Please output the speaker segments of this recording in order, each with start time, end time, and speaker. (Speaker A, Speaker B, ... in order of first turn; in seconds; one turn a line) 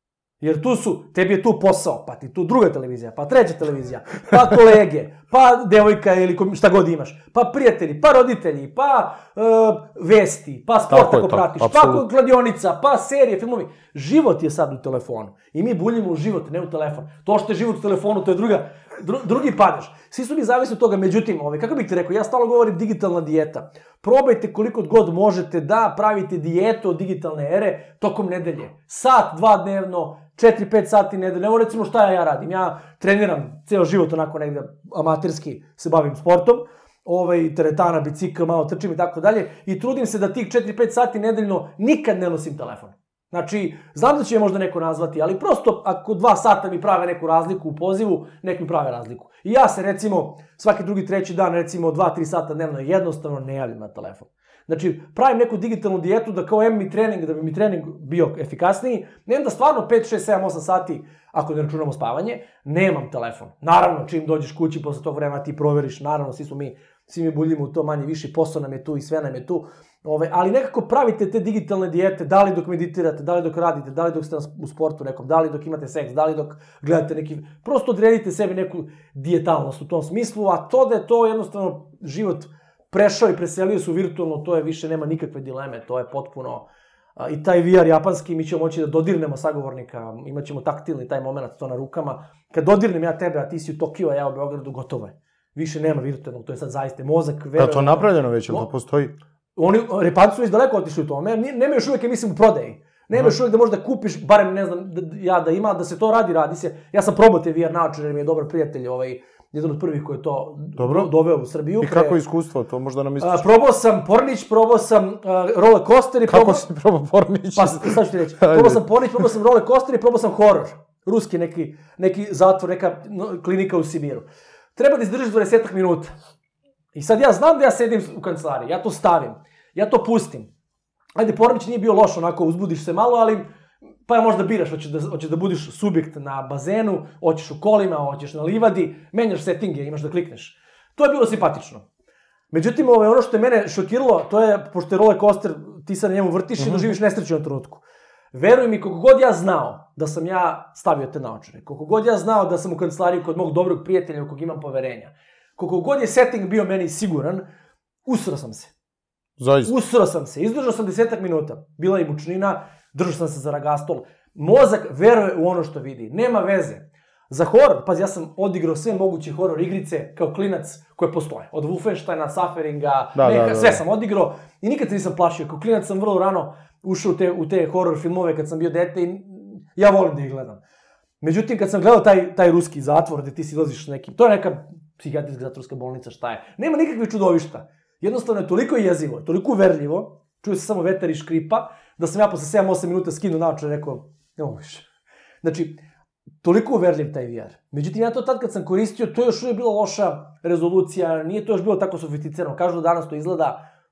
Speaker A: 0.4-86.6
Speaker B: 10.9-12.1
Speaker A: 87.2-98.7
Speaker B: 97.6-99.1
Speaker A: 99.5-112.2
Speaker B: 110.8-111.1
Speaker B: 111.8-113.5
Speaker A: 113.2-116.6
Speaker B: 116.3-119.2
Speaker A: 117.5-124.2
Speaker A: 124.8-126.1
Speaker A: 126.9-130.5
Speaker A: 131.2-133.4
Speaker A: 134.1-141.8
Speaker A: 142.5-157.4
Speaker B: 146.6-146.9
Speaker A: 158.0-158.7
Speaker B: 159.4-159.7
Speaker A: 159.6-180.6
Speaker B: 173.2-173.8
Speaker A: 181.2-194.9
Speaker A: 195.4-195.8
Speaker A: 196.4-203.7